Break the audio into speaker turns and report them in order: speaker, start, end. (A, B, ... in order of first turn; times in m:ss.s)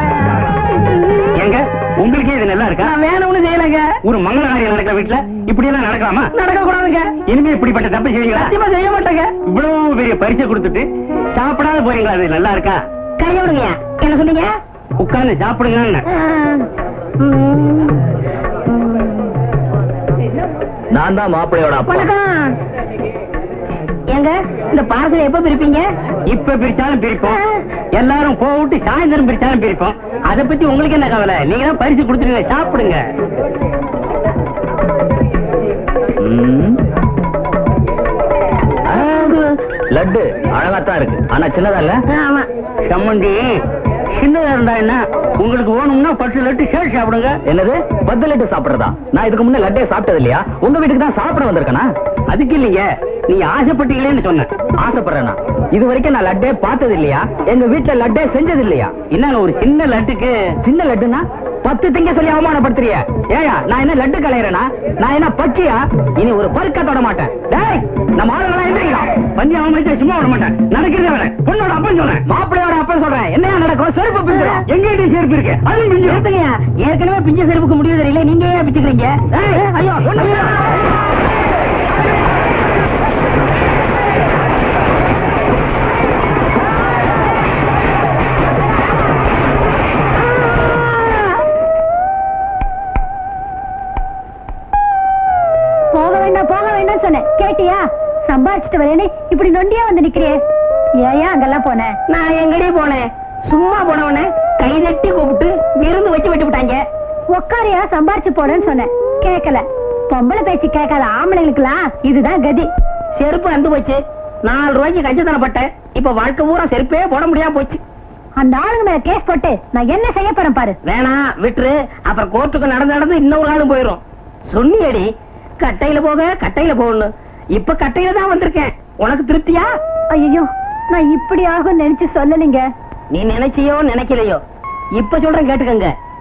0:01.3-0:02.9 A
0:02.8-0:04.0 B
0:04.0-0:06.3 A
0:06.3-0:07.1 B
0:07.3-0:08.6 A
0:08.4-0:09.3 B
0:09.5-0:12.8 A
0:13.2-0:14.6 B
0:15.0-0:16.0 A
0:16.1-0:16.7 B
0:17.2-0:18.0 B
0:18.7-0:19.3 B
0:20.9-0:22.1 C
0:21.8-0:22.5 B
0:24.1-0:25.9 B
0:26.3-0:27.4 A
0:28.0-0:33.0 A
0:36.2-0:36.8 C
0:39.0-0:39.4 C
0:39.0-0:39.4 A
0:39.9-0:42.0 C
0:42.1-0:42.5 B
0:42.9-0:43.5 A
0:44.2-0:47.4 A
0:47.5-0:51.9 C
0:52.3-0:54.5 A
0:54.8-0:59.0 C
0:59.1-1:00.3 A
1:00.6-1:09.1 C
1:09.3-1:12.2 A
1:12.3-1:14.6 C
1:14.3-1:14.6 B
1:14.7-1:16.2 A
1:16.0-1:20.8 B
1:19.4-1:20.6 A
1:35.9-1:40.4 D
1:41.0-1:42.0 D
1:42.1-1:46.8 B
1:47.3-1:52.7 D
1:53.2-1:57.8 B
1:58.4-2:00.8 D
2:00.8-2:05.1 B
2:05.6-2:09.7 B
2:10.1-2:12.7 D
2:13.1-2:14.4 B
2:15.0-2:15.9 B